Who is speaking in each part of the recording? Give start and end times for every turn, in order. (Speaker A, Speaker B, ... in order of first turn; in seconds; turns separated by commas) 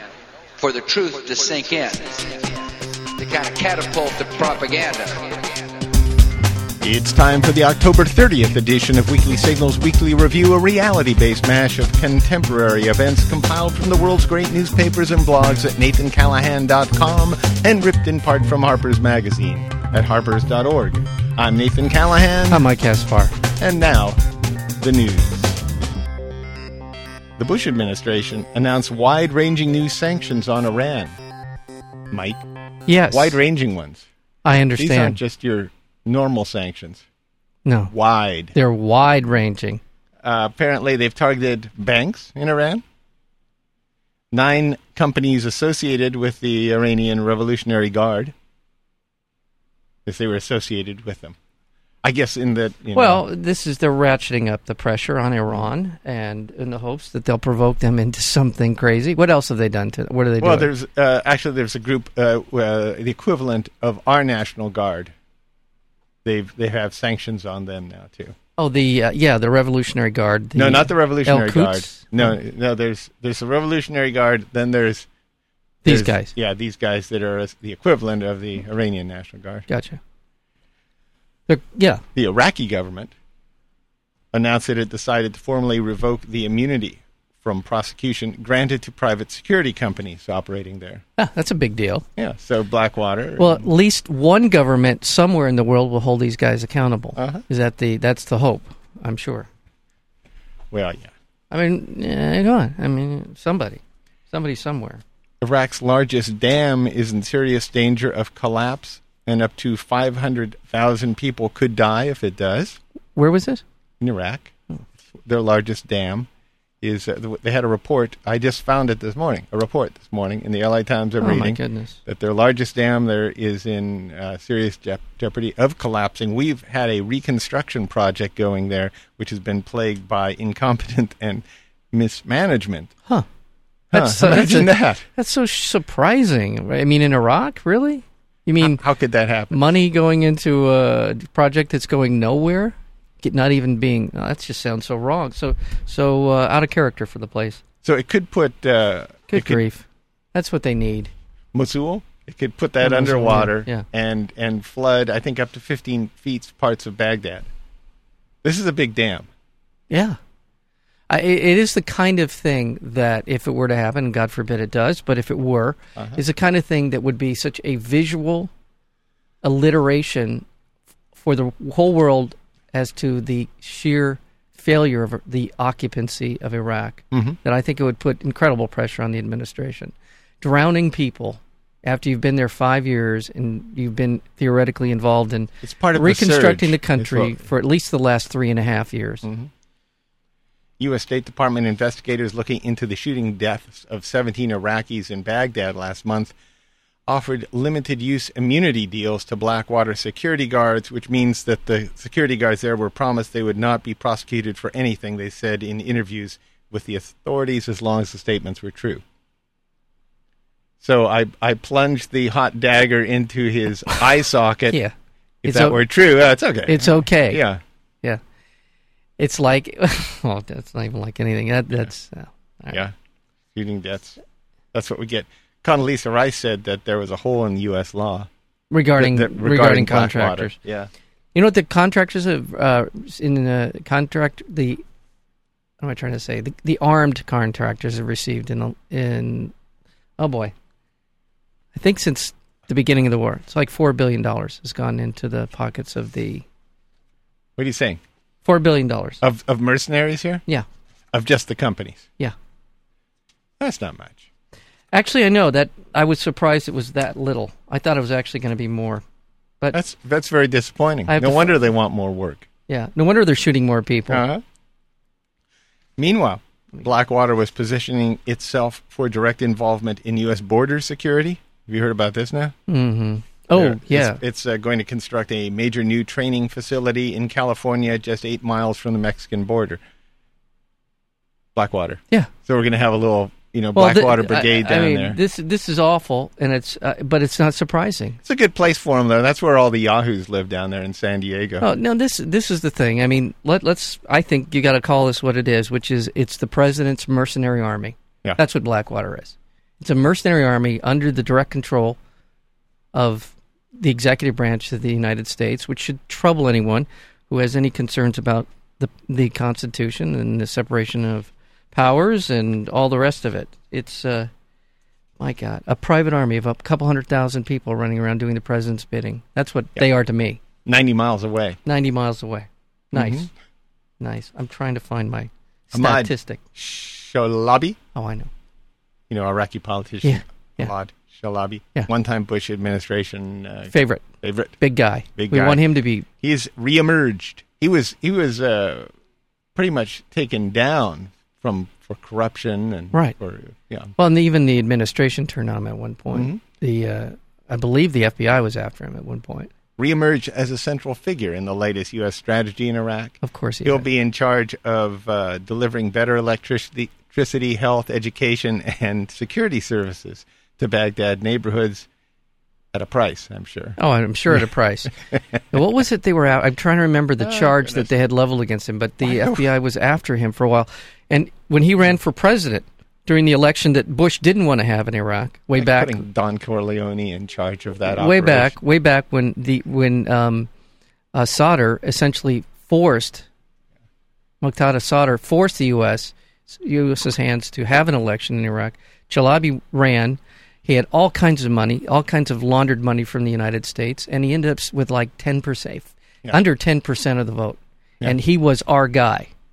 Speaker A: 0.6-2.6, Speaker A: 3.2-5.5, Speaker B: 6.8-22.6, Speaker C: 22.5-23.4, Speaker B: 23.6-24.2, Speaker B: 24.8-25.6, Speaker B: 27.4-31.2, Speaker B: 32.1-32.4, Speaker C: 32.9-33.4, Speaker B: 33.1-34.0, Speaker C: 34.4-35.2, Speaker B: 34.8-37.0, Speaker C: 37.6-37.9, Speaker B: 37.9-38.5, Speaker C: 38.5-39.8, Speaker B: 40.2-42.8, Speaker B: 44.3-48.3, Speaker B: 50.0-51.4, Speaker B: 52.0-53.2, Speaker C: 52.9-60.7, Speaker B: 60.4-65.1, Speaker B: 66.2-68.3, Speaker C: 68.6-72.3, Speaker B: 70.5-75.1, Speaker C: 75.8-76.3, Speaker B: 75.8-79.7, Speaker C: 79.7-80.0, Speaker C: 81.5-82.0, Speaker B: 82.2-83.1, Speaker B: 84.3-91.0, Speaker C: 91.2-92.0, Speaker B: 92.2-93.7, Speaker C: 93.4-99.5, Speaker B: 97.2-97.4, Speaker B: 100.7-101.1, Speaker C: 101.5-105.0, Speaker B: 105.4-112.8, Speaker C: 113.2-113.6, Speaker B: 114.0-114.5, Speaker B: 115.2-116.3, Speaker B: 116.8-132.9, Speaker C: 121.2-122.0, Speaker B: 133.9-135.0, Speaker C: 133.9-138.8, Speaker B: 138.6-139.7, Speaker C: 139.5-147.6, Speaker B: 147.8-149.6, Speaker C: 149.3-151.1, Speaker B: 151.5-157.5, Speaker C: 152.8-153.8, Speaker B: 158.4-159.3, Speaker C: 159.9-160.2, Speaker C: 161.1-168.5, Speaker C: 169.4-170.4, Speaker C: 171.1-189.3, Speaker B: 177.1-177.4, Speaker B: 185.6-187.4, Speaker B: 189.2-189.5, Speaker B: 190.8-196.3, Speaker B: 197.1-209.0, Speaker B: 210.8-214.8, Speaker B: 215.4-217.6, Speaker C: 215.4-215.8, Speaker C: 216.7-217.4, Speaker C: 219.2-222.8, Speaker B: 223.5-224.2, Speaker B: 224.7-228.3, Speaker C: 228.7-230.6, Speaker B: 229.0-230.9, Speaker C: 231.3-234.8, Speaker C: 235.8-239.5, Speaker C: 240.2-240.5, Speaker C: 241.7-246.4, Speaker B: 247.6-248.0, Speaker C: 248.4-249.2, Speaker B: 249.2-250.4, Speaker B: 251.1-252.1, Speaker B: 253.6-254.2, Speaker C: 254.9-259.0, Speaker B: 259.7-262.5, Speaker C: 261.1-261.6, Speaker C: 262.7-264.2, Speaker B: 264.1-264.4, Speaker B: 266.0-272.5, Speaker C: 272.7-274.2, Speaker B: 273.5-279.8, Speaker B: 281.5-285.2, Speaker C: 283.7-288.2, Speaker B: 288.2-291.7, Speaker C: 291.6-302.0, Speaker C: 302.9-314.3, Speaker C: 315.2-320.4, Speaker B: 320.6-321.6, Speaker C: 321.6-323.3, Speaker B: 322.9-323.3, Speaker C: 324.0-326.4, Speaker B: 325.7-327.8, Speaker C: 327.9-328.3, Speaker B: 329.1-334.6, Speaker C: 330.0-330.7, Speaker C: 333.7-334.0, Speaker C: 334.6-336.1, Speaker B: 335.1-335.6, Speaker B: 336.2-338.9, Speaker B: 339.5-343.9, Speaker C: 344.0-349.5, Speaker B: 346.1-346.4, Speaker B: 349.8-361.9, Speaker C: 353.2-353.8, Speaker B: 362.7-363.8, Speaker C: 363.8-364.9, Speaker C: 365.5-376.0, Speaker B: 367.2-367.9, Speaker B: 369.0-369.4, Speaker B: 375.6-378.5, Speaker C: 377.9-380.5, Speaker C: 381.1-383.2, Speaker C: 384.4-399.3